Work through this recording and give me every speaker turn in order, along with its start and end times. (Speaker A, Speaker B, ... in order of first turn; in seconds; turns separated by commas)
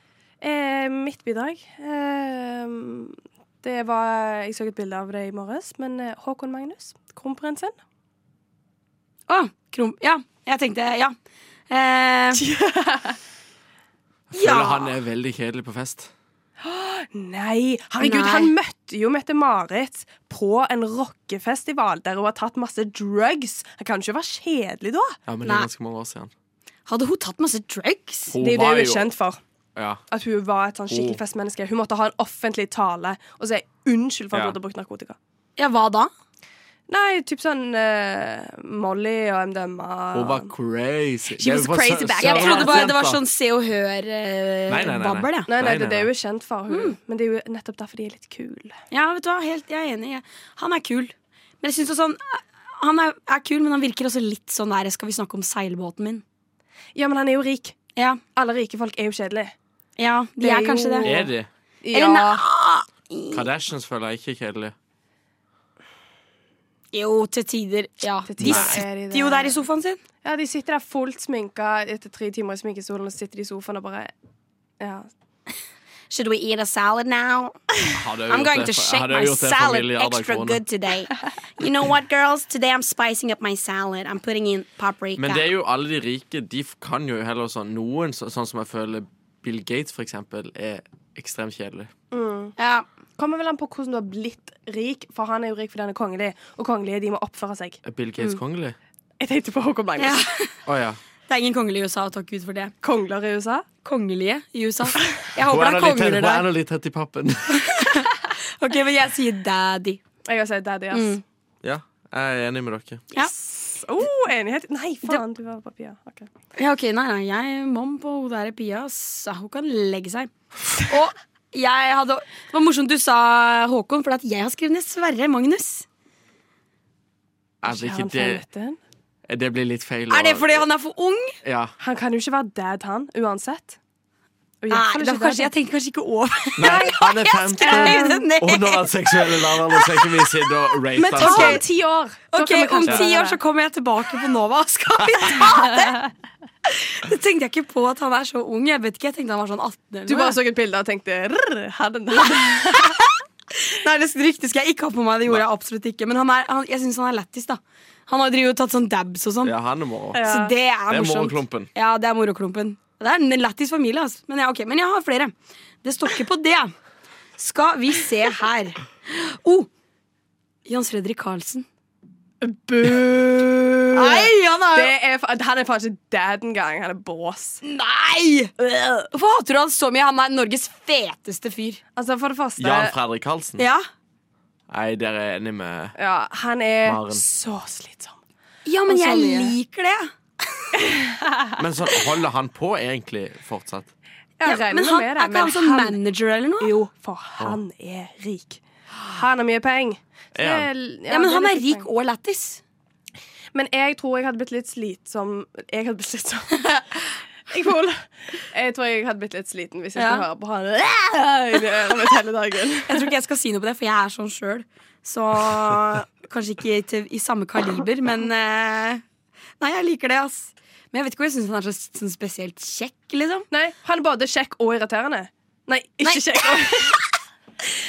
Speaker A: 0.4-7.8, Speaker B: 9.3-11.2, Speaker B: 11.7-12.4, Speaker A: 12.4-13.2, Speaker C: 14.3-16.1, Speaker B: 14.3-14.9, Speaker A: 16.6-25.2, Speaker B: 18.0-18.5, Speaker C: 25.3-26.3, Speaker B: 26.9-28.4, Speaker C: 28.3-29.1, Speaker A: 28.4-29.4, Speaker C: 29.8-30.0, Speaker A: 30.1-35.2, Speaker C: 30.9-31.2, Speaker B: 35.6-36.1, Speaker A: 36.9-40.5, Speaker C: 40.1-43.2, Speaker A: 41.4-43.0, Speaker B: 42.2-45.5, Speaker C: 44.7-46.1, Speaker A: 45.5-48.8, Speaker B: 46.7-47.0, Speaker B: 48.9-56.2, Speaker A: 57.0-57.8, Speaker A: 58.4-59.5, Speaker B: 60.0-61.1, Speaker A: 60.4-61.3, Speaker C: 61.0-61.5, Speaker A: 61.8-62.5, Speaker B: 61.9-63.4, Speaker C: 63.3-64.8, Speaker B: 66.9-70.0, Speaker A: 68.3-69.6, Speaker C: 68.4-68.8, Speaker A: 70.2-74.1, Speaker A: 74.8-75.1, Speaker B: 76.1-77.6, Speaker C: 77.9-80.6, Speaker B: 78.3-85.5, Speaker C: 85.2-91.9, Speaker A: 92.1-92.6, Speaker B: 92.6-92.8, Speaker A: 93.2-97.8, Speaker C: 97.8-98.8, Speaker A: 99.2-100.2, Speaker B: 100.0-100.5, Speaker C: 100.7-101.0, Speaker B: 101.3-102.7, Speaker A: 102.8-103.7, Speaker B: 103.8-106.5, Speaker C: 105.4-107.8, Speaker B: 107.5-110.0, Speaker A: 110.2-111.2, Speaker B: 110.9-111.2, Speaker C: 111.6-113.0, Speaker A: 113.2-116.3, Speaker B: 116.6-125.9, Speaker C: 127.6-128.4, Speaker A: 127.6-128.8, Speaker C: 129.3-130.7, Speaker B: 130.1-131.3, Speaker C: 131.4-131.7, Speaker A: 131.8-133.8, Speaker A: 134.6-135.5, Speaker B: 134.7-138.9, Speaker A: 136.6-137.0, Speaker C: 136.6-141.6, Speaker A: 137.6-138.2, Speaker A: 141.0-143.4, Speaker B: 141.2-141.7, Speaker B: 142.3-146.0, Speaker C: 145.0-145.3, Speaker A: 145.4-145.9, Speaker B: 146.7-150.4, Speaker A: 150.1-153.0, Speaker B: 153.6-159.5, Speaker C: 159.4-160.2, Speaker A: 160.1-160.6, Speaker B: 160.1-166.7, Speaker C: 160.9-161.7, Speaker B: 167.4-169.7, Speaker B: 170.7-171.7, Speaker A: 172.4-177.6, Speaker B: 173.9-174.9, Speaker B: 177.6-178.5, Speaker A: 178.6-179.1, Speaker B: 179.1-181.8, Speaker A: 182.0-182.9, Speaker C: 182.6-183.6, Speaker B: 183.6-183.9, Speaker C: 184.7-185.9, Speaker A: 186.0-188.2, Speaker C: 186.8-187.2, Speaker B: 188.7-190.8, Speaker A: 188.9-189.6, Speaker A: 190.8-191.5, Speaker C: 191.6-193.9, Speaker A: 194.4-196.0, Speaker B: 194.4-196.7, Speaker A: 196.6-201.9, Speaker C: 200.3-200.7, Speaker B: 201.1-202.6, Speaker A: 203.5-213.1, Speaker B: 210.0-210.2, Speaker B: 212.9-219.0, Speaker B: 219.6-223.5, Speaker A: 223.5-227.0, Speaker B: 226.0-227.1